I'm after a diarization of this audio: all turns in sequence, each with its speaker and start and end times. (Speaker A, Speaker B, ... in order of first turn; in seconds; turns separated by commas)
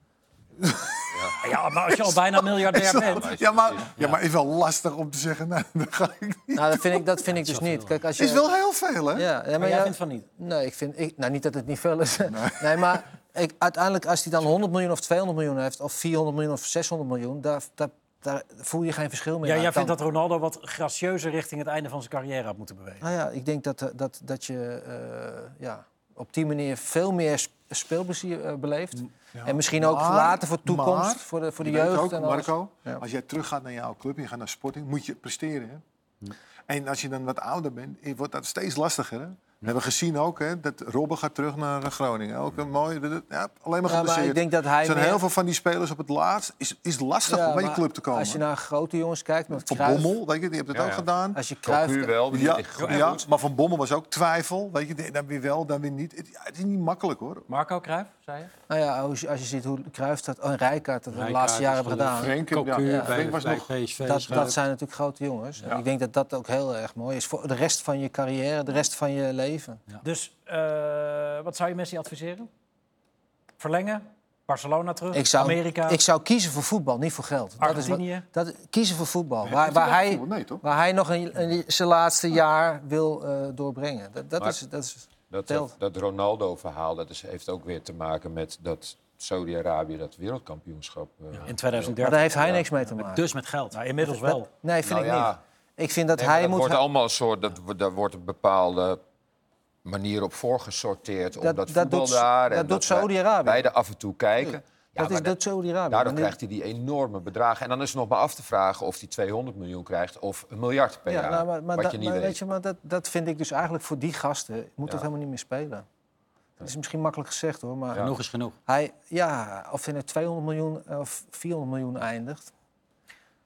Speaker A: 0.6-7.0, Speaker B: 1.1-1.4, Speaker C: 1.4-3.3, Speaker B: 2.9-3.9, Speaker D: 6.5-8.5, Speaker E: 7.3-8.0, Speaker A: 8.2-9.3, Speaker D: 9.1-20.0, Speaker C: 9.6-10.3, Speaker A: 12.3-13.0, Speaker C: 19.4-23.1, Speaker D: 23.0-33.0, Speaker A: 29.3-35.8, Speaker A: 36.7-48.4, Speaker D: 43.9-45.2, Speaker D: 47.3-50.1, Speaker A: 49.5-51.4, Speaker B: 50.7-51.1, Speaker D: 51.4-52.3, Speaker B: 51.6-53.3, Speaker A: 52.3-57.5, Speaker C: 57.5-58.5, Speaker D: 58.7-63.2, Speaker E: 61.1-64.5, Speaker A: 62.1-63.7, Speaker D: 64.0-69.8, Speaker A: 64.3-64.5, Speaker C: 70.0-72.5, Speaker C: 73.6-76.0, Speaker D: 75.1-85.7, Speaker C: 77.6-78.2, Speaker A: 79.4-80.6, Speaker B: 85.3-92.6, Speaker C: 91.5-92.3, Speaker D: 92.0-93.2, Speaker E: 93.0-93.8, Speaker C: 93.7-94.5, Speaker D: 94.0-96.8, Speaker B: 94.8-95.4, Speaker B: 96.2-99.0, Speaker B: 99.8-105.3, Speaker D: 101.4-103.7, Speaker D: 104.4-106.4, Speaker B: 105.9-112.4, Speaker D: 111.1-115.8, Speaker D: 116.6-118.1, Speaker E: 118.0-118.5, Speaker D: 118.7-122.5